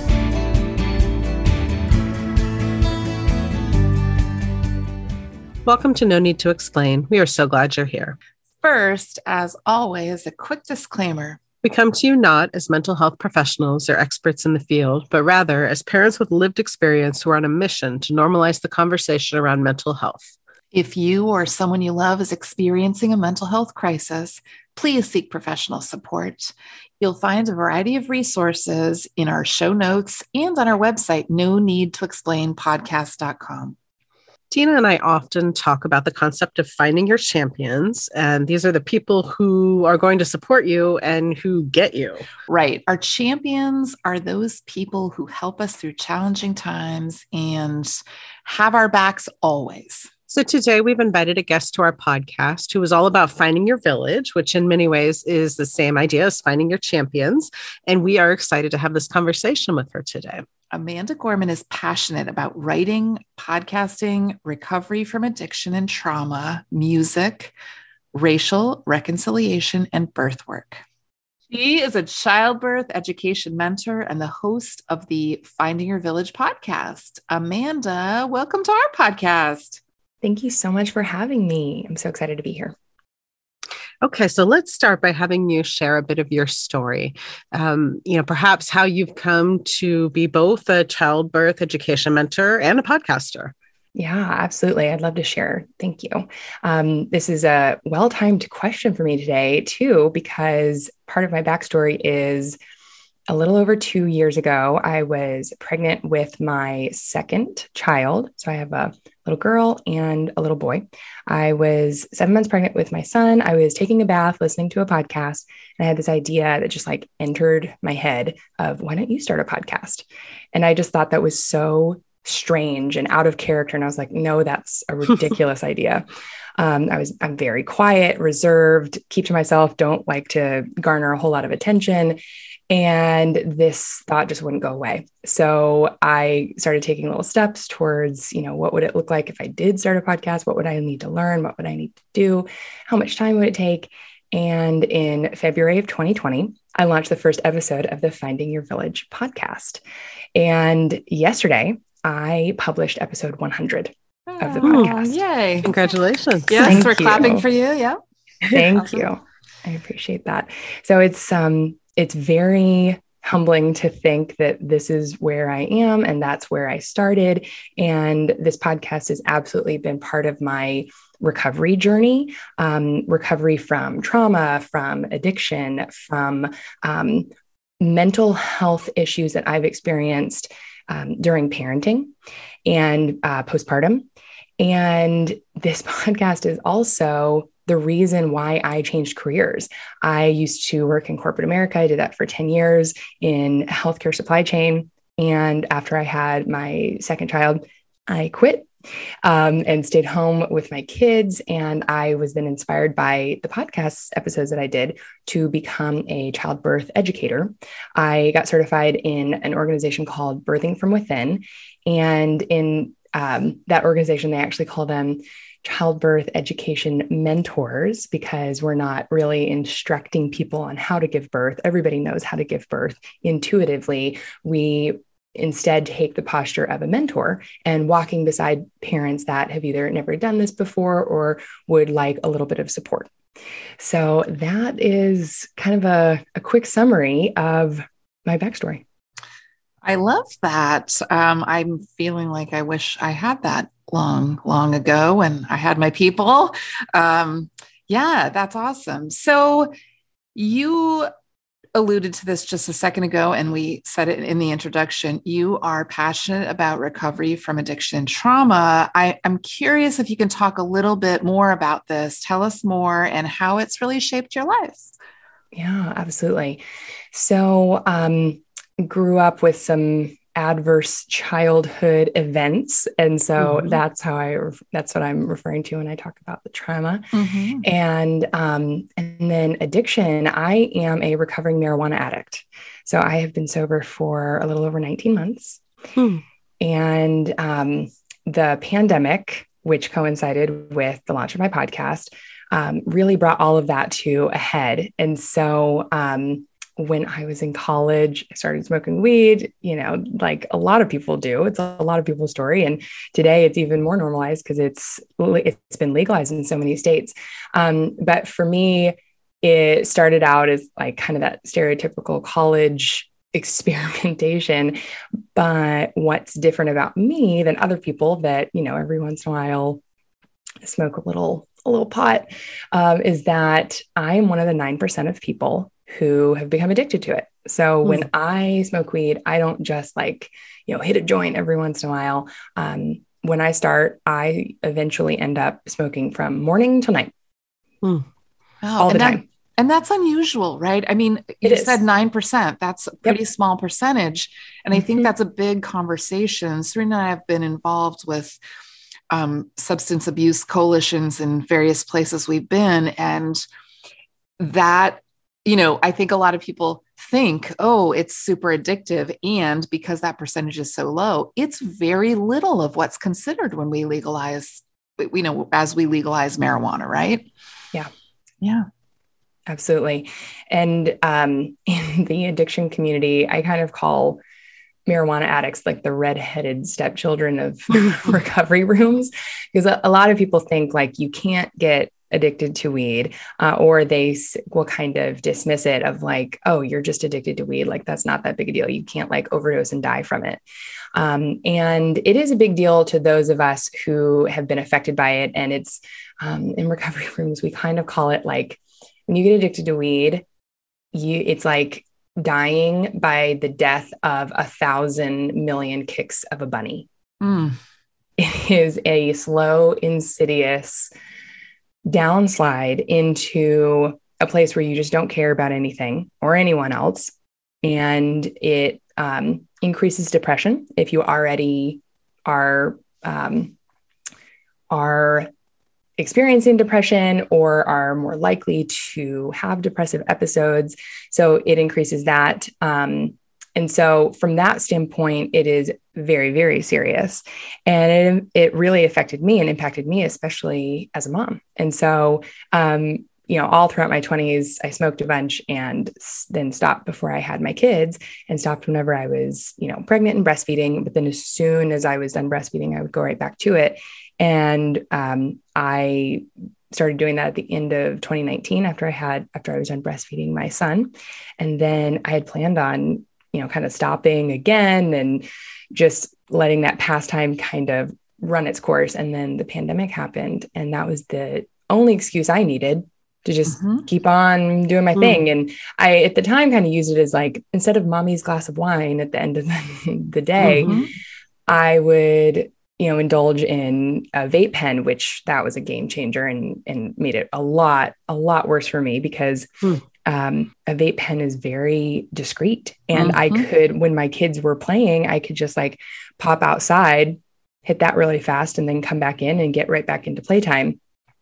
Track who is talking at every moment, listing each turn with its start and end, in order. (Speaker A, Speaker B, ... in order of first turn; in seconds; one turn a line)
Speaker A: 5.7-8.2
Speaker B: 8.6-11.4
Speaker A: 11.6-20.3
Speaker B: 20.7-33.8
Speaker A: 34.5-42.2
Speaker B: 42.5-50.1
Speaker A: 50.3-60.5
Speaker B: 60.7-67.5
Speaker B: 68.1-70.8
Speaker B: 71.5-79.8
Speaker C: 80.2-82.8
Speaker A: 84.0-93.5
Speaker C: 93.9-102.6
Speaker C: 103.3-126.0
Speaker C: 126.6-132.2
Speaker C: 132.7-149.8
Speaker C: 150.3-155.2
Speaker B: 154.3-155.7
Speaker A: 154.6-154.9
Speaker A: 155.6-156.9
Speaker B: 156.5-158.0
Speaker C: 156.6-157.4
Speaker C: 158.4-182.1
Speaker B: 158.5-159.1
Speaker C: 182.7-184.1
Speaker C: 184.6-198.7
Speaker C: 199.2-233.1
Speaker C: 233.8-238.8
Speaker B: 239.8-249.7
Speaker B: 250.3-251.1
Speaker B: 251.7-264.9
Speaker C: 265.5-277.1
Speaker B: 277.1-277.6
Speaker C: 277.6-285.6
Speaker A: 285.9-286.2
Speaker C: 286.6-314.8
Speaker C: 315.3-319.8
Speaker C: 320.6-337.1
Speaker B: 338.6-348.4
Speaker C: 338.8-339.2
Speaker C: 341.4-341.8
Speaker C: 344.7-345.1
Speaker B: 349.1-353.4
Speaker B: 354.4-367.3
Speaker C: 369.5-374.2
Speaker C: 374.9-390.4
Speaker C: 390.9-400.2
Speaker C: 400.9-406.9
Speaker B: 407.2-407.6
Speaker C: 408.2-410.9
Speaker C: 411.9-423.5
Speaker C: 424.7-425.3
Speaker C: 426.0-480.8
Speaker B: 473.5-473.8
Speaker B: 480.4-480.9
Speaker C: 481.5-489.5
Speaker C: 490.0-500.8
Speaker B: 492.9-493.5